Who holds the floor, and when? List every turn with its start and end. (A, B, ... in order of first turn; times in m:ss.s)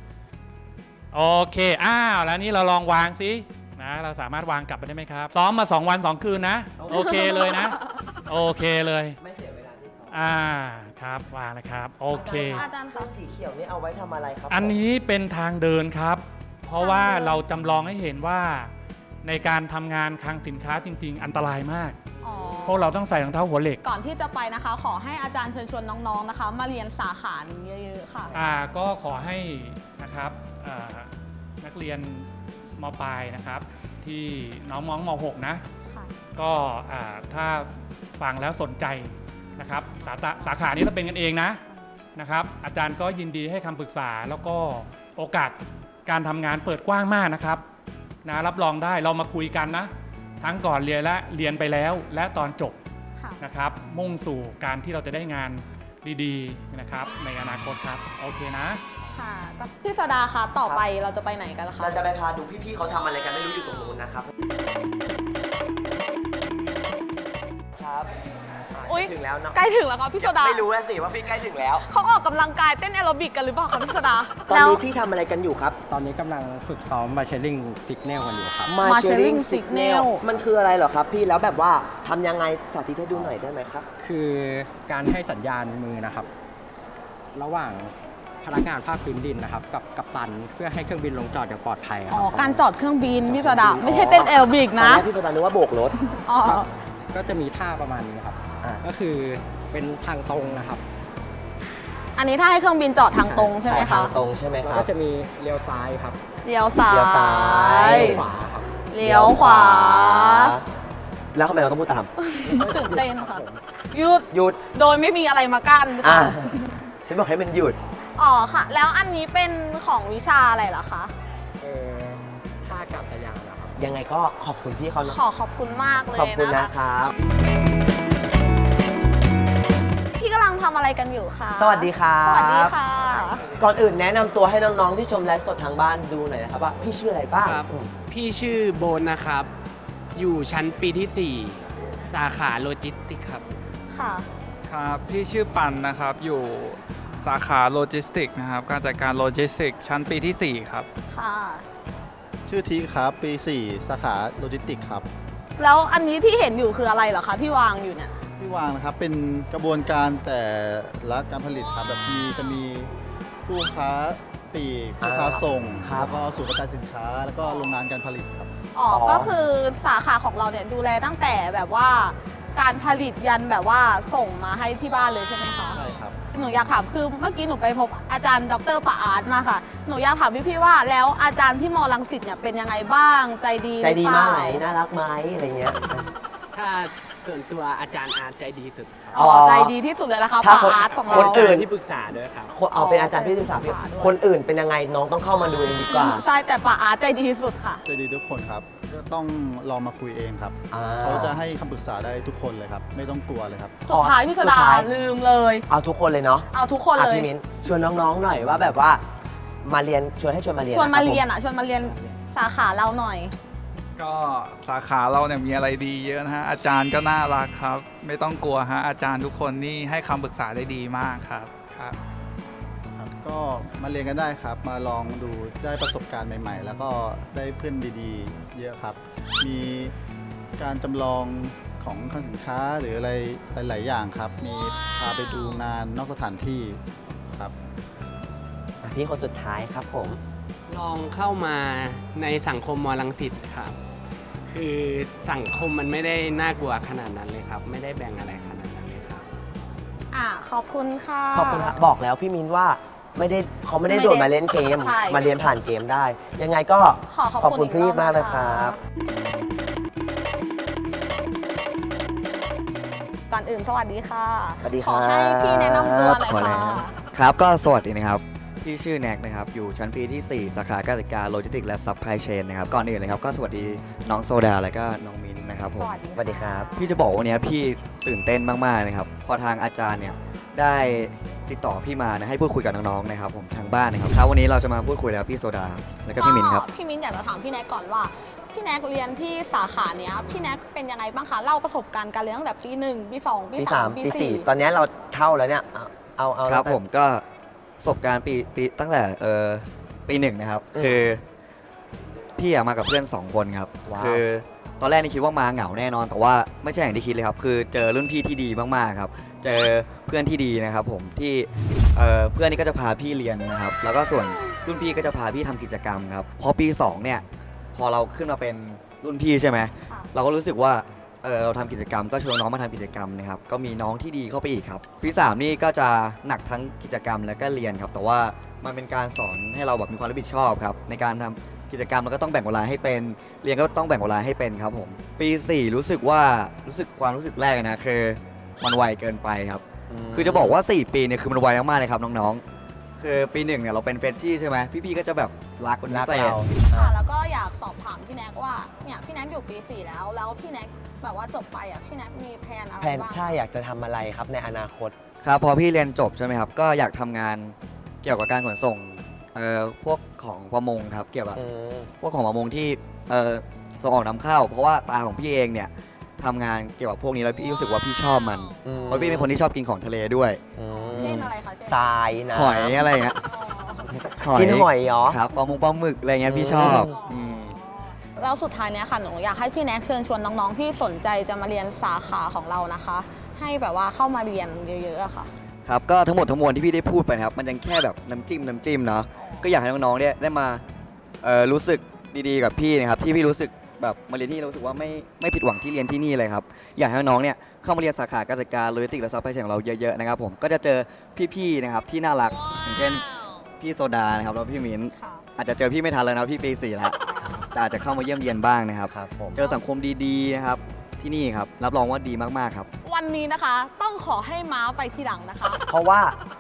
0:01.1-0:09.2 A
0:06.8-0:07.5 B
0:06.9-0:07.7 C
0:09.2-0:10.4 B
0:10.1-0:12.6 A
0:12.1-0:14.8 B
0:12.4-0:13.1 C
0:14.5-0:18.7 A
0:16.8-0:17.4 C
0:19.2-0:22.0 A
0:22.1-0:22.8 B
0:22.2-0:22.8 C
0:22.7-0:23.8 A
0:23.8-0:28.4 C
0:28.3-0:28.5 B
0:28.3-0:31.1 A
0:31.6-0:32.3 A
0:32.8-0:35.6 A
0:35.9-0:36.1 C
0:36.4-0:41.6 A
0:40.0-0:40.6 C
0:41.7-0:42.0 C
0:42.2-0:47.6 A
0:48.2-0:52.8 A
0:53.2-0:53.4 C
0:53.4-0:58.8 A
0:59.1-1:02.0 C
1:01.8-1:04.3 B
1:07.8-1:08.2 B
1:08.7-1:09.6 B
1:08.9-1:10.6 C
1:10.2-1:11.8 B
1:11.8-1:14.8 C
1:14.5-1:15.8 B
1:15.9-1:18.8 D
1:18.6-1:23.9 B
1:18.8-1:20.2 C
1:23.1-1:23.4 D
1:24.0-1:26.3 D
1:27.3-1:32.7 D
1:32.1-1:35.1 C
1:33.2-1:34.0 D
1:33.8-1:35.9 B
1:35.9-1:36.7 C
1:37.1-1:40.8 D
1:42.2-1:44.1 C
1:43.2-1:43.6 D
1:43.6-1:44.9 B
1:44.6-1:46.2 D
1:46.4-1:48.2 C
1:46.9-1:48.2 B
1:47.7-1:48.7 D
1:48.9-1:50.5 C
1:49.0-1:50.6 B
1:51.3-1:52.1 B
1:52.2-1:56.8 C
1:52.4-1:53.6 D
1:54.3-1:54.6 B
1:56.0-1:56.5 B
1:57.1-1:57.8 B
1:58.2-2:01.1 C
2:01.6-2:03.9 D
2:03.8-2:05.2 B
2:05.1-2:06.7 C
2:06.1-2:07.1 B
2:10.2-2:13.4 C
2:11.6-2:12.8 B
2:13.6-2:17.9 B
2:17.4-2:19.5 E
2:20.2-2:23.4 E
2:23.9-2:24.3 C
2:24.7-2:30.9 F
2:31.1-2:31.7 C
2:32.5-2:35.1 G
2:35.6-2:38.1 C
2:38.4-2:42.9 G
2:43.5-2:48.5 G
2:45.0-2:46.2 B
2:48.8-3:04.6 C
2:48.9-2:49.4 B
2:55.7-2:56.2 G
3:03.8-3:06.1 B
3:06.5-3:09.2 E
3:09.1-3:09.7 B
3:09.2-3:11.4 C
3:10.4-3:11.7 B
3:11.0-3:12.6 E
3:12.5-3:16.2 B
3:12.7-3:14.2 C
3:15.9-3:17.8 C
3:17.8-3:23.8 G
3:20.7-3:21.4 B
3:23.9-3:25.7 C
3:23.9-3:24.9 B
3:25.7-3:29.0 B
3:26.5-3:27.3 C
3:29.6-3:31.2 B
3:30.7-3:33.3 C
3:34.0-3:42.0 F
3:43.0-3:49.9 G
3:50.6-3:56.8 G
3:58.8-4:00.2 B
4:00.7-4:03.8 E
4:04.5-4:09.3 E
4:10.1-4:11.7 C
4:11.4-4:18.8 B
4:13.9-4:15.3 C
4:17.1-4:18.8 C
4:23.3-4:27.0 C
4:24.6-4:26.1 B
4:26.0-4:36.0 H
4:35.7-4:37.0 C
4:36.2-4:36.7 B
4:36.8-4:46.7 H
4:46.2-4:54.5 C
4:53.6-4:56.8 B
4:56.4-4:57.2 H
4:57.8-5:01.2 H
5:00.8-5:01.1 B
5:02.4-5:17.2 H
5:03.9-5:04.2 B
5:17.8-5:42.4 H
5:39.9-5:40.6 B
5:43.0-5:46.4 H
5:45.9-5:47.0 B
5:46.7-5:53.4 C
5:52.8-5:54.9 B
5:55.2-6:01.4 H
6:01.4-6:01.9 B
6:02.0-6:11.3 H
6:08.6-6:09.3 B
6:10.6-6:12.8 B
6:10.7-6:11.8 C
6:12.3-6:13.2 H
6:13.3-6:13.9 C
6:13.9-6:15.2 B
6:14.2-6:17.6 H
6:16.2-6:16.9 B
6:16.7-6:25.3 C
6:25.7-6:30.6 H
6:29.2-6:29.5 C
6:31.2-6:43.1 H
6:43.6-6:52.7 H
6:45.0-6:45.2 C
6:47.1-6:47.4 C
6:48.9-6:49.4 B
6:52.8-6:55.6 C
6:55.7-6:56.2 B